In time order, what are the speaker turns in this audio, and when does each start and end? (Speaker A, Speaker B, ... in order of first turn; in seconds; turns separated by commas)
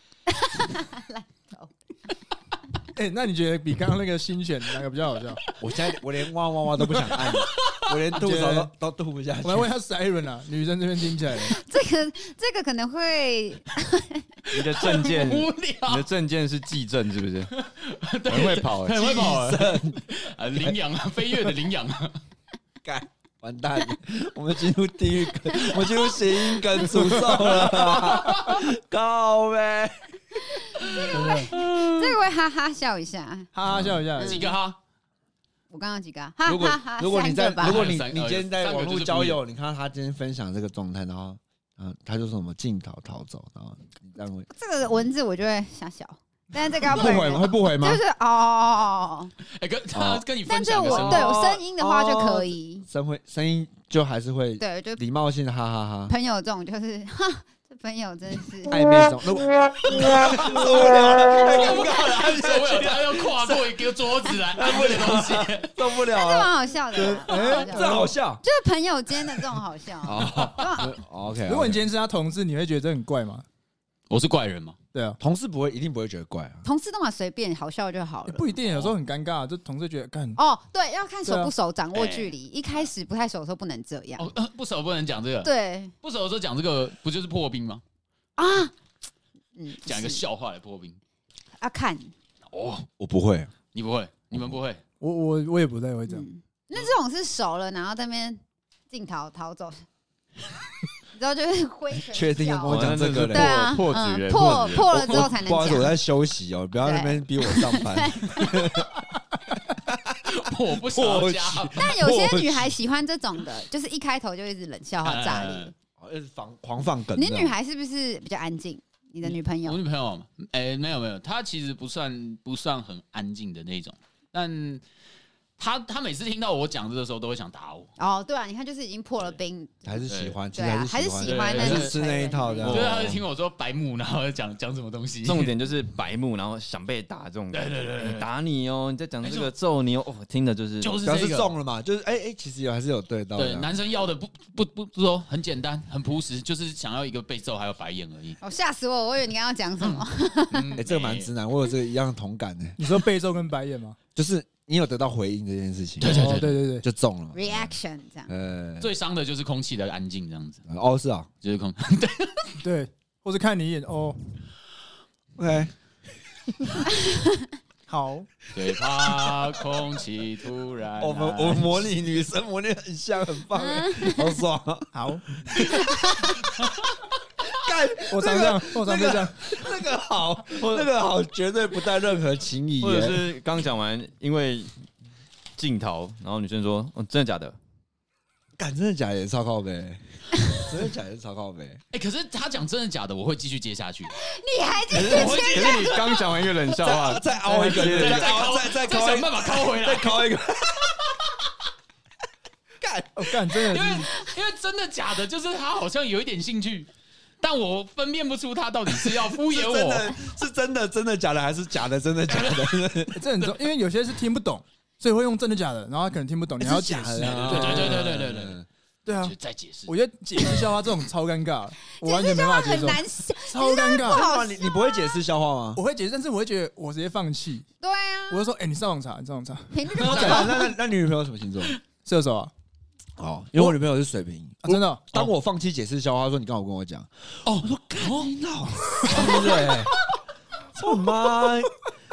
Speaker A: 0.3-1.7, Speaker B: 2.9-5.4, Speaker C: 5.6-9.7, Speaker D: 6.8-8.0, Speaker B: 8.1-8.7, Speaker B: 9.4-11.6, Speaker A: 11.5-14.4, Speaker E: 14.5-17.5, Speaker D: 14.8-16.1, Speaker D: 17.5-22.2, Speaker E: 18.3-19.0, Speaker C: 18.9-20.0, Speaker C: 22.8-30.1, Speaker D: 27.5-28.6, Speaker A: 30.7-33.5, Speaker D: 30.8-32.2, Speaker B: 31.1-31.5, Speaker B: 33.5-34.4, Speaker C: 33.7-34.0, Speaker A: 34.2-34.6, Speaker D: 34.2-34.8, Speaker A: 35.7-37.9, Speaker C: 36.5-44.5, Speaker D: 37.6-39.4, Speaker A: 44.5-49.3, Speaker C: 46.8-48.0, Speaker D: 49.5-51.5, Speaker C: 49.9-50.2, Speaker A: 50.5-52.9, Speaker C: 50.8-56.1, Speaker A: 54.6-55.0, Speaker A: 56.1-58.8, Speaker C: 58.7-63.7, Speaker D: 61.3-65.7, Speaker C: 64.5-66.5, Speaker A: 66.1-70.9, Speaker B: 66.9-68.1, Speaker C: 67.3-68.4, Speaker C: 70.0-71.9, Speaker B: 71.5-73.4, Speaker D: 74.1-74.8, Speaker C: 75.2-76.7, Speaker A: 76.6-78.5, Speaker B: 78.3-80.4, Speaker A: 80.3-84.3, Speaker B: 81.2-81.5, Speaker D: 81.9-82.9, Speaker D: 84.2-87.8, Speaker A: 85.4-85.9, Speaker A: 88.4-88.7, Speaker A: 89.5-90.2, Speaker D: 89.8-91.0, Speaker A: 91.6-92.1, Speaker D: 92.5-92.9, Speaker C: 93.0-93.5, Speaker D: 93.7-94.8, Speaker B: 95.0-96.2, Speaker A: 96.1-99.8, Speaker A: 101.1-106.0, Speaker C: 102.0-103.7, Speaker E: 102.6-105.0, Speaker C: 104.7-109.0, Speaker D: 104.8-105.2, Speaker A: 106.8-108.7, Speaker C: 109.7-112.7, Speaker D: 110.2-111.9, Speaker A: 111.7-115.7, Speaker D: 115.0-115.7, Speaker C: 116.0-117.5, Speaker A: 117.2-119.8, Speaker D: 119.2-124.8, Speaker D: 125.6-127.9, Speaker A: 128.0-129.9, Speaker C: 129.8-133.1, Speaker D: 130.1-130.4, Speaker A: 130.5-132.9, Speaker D: 131.2-132.0, Speaker E: 132.6-133.2, Speaker D: 132.6-135.5, Speaker E: 135.2-141.0, Speaker D: 137.5-138.2, Speaker D: 139.2-139.5, Speaker D: 140.8-141.5, Speaker C: 141.0-143.7, Speaker D: 143.3-148.4, Speaker A: 148.4-150.8, Speaker D: 149.8-151.3, Speaker C: 150.7-152.8, Speaker B: 152.8-154.0, Speaker C: 154.2-157.8, Speaker D: 156.0-156.6, Speaker B: 156.1-156.8, Speaker A: 157.3-158.3, Speaker C: 158.3-158.9, Speaker D: 158.8-160.6, Speaker C: 160.7-161.3, Speaker D: 161.4-162.6, Speaker B: 162.6-164.2, Speaker C: 165.4-165.7, Speaker A: 166.9-167.5, Speaker B: 167.9-168.3, Speaker D: 168.5-171.8, Speaker C: 171.0-176.4, Speaker A: 173.7-174.2, Speaker B: 174.9-175.2, Speaker A: 175.6-176.1, Speaker C: 177.5-183.3, Speaker B: 178.1-179.4, Speaker E: 182.8-184.7, Speaker E: 185.6-187.6, Speaker C: 188.6-191.8, Speaker D: 191.9-194.1, Speaker A: 194.2-196.1, Speaker D: 194.9-196.4, Speaker C: 194.9-195.5, Speaker E: 195.0-198.4, Speaker C: 196.8-201.1, Speaker B: 197.4-197.7, Speaker D: 197.7-200.3, Speaker C: 202.8-203.4, Speaker B: 203.2-204.1, Speaker D: 203.7-206.9, Speaker D: 207.4-210.2, Speaker C: 209.1-213.2, Speaker D: 212.3-212.8, Speaker B: 213.1-218.1, Speaker C: 216.6-218.7, Speaker D: 217.2-218.6, Speaker B: 219.1-219.3, Speaker D: 219.2-219.9, Speaker B: 219.8-224.2, Speaker A: 222.0-225.2, Speaker C: 224.0-225.8, Speaker B: 225.7-227.7, Speaker A: 227.8-228.4, Speaker B: 228.3-230.5, Speaker A: 229.7-230.6, Speaker C: 230.0-231.8, Speaker B: 232.0-232.5, Speaker C: 233.2-240.0, Speaker B: 234.6-235.0, Speaker D: 237.4-238.3, Speaker D: 238.9-240.1, Speaker C: 240.7-241.7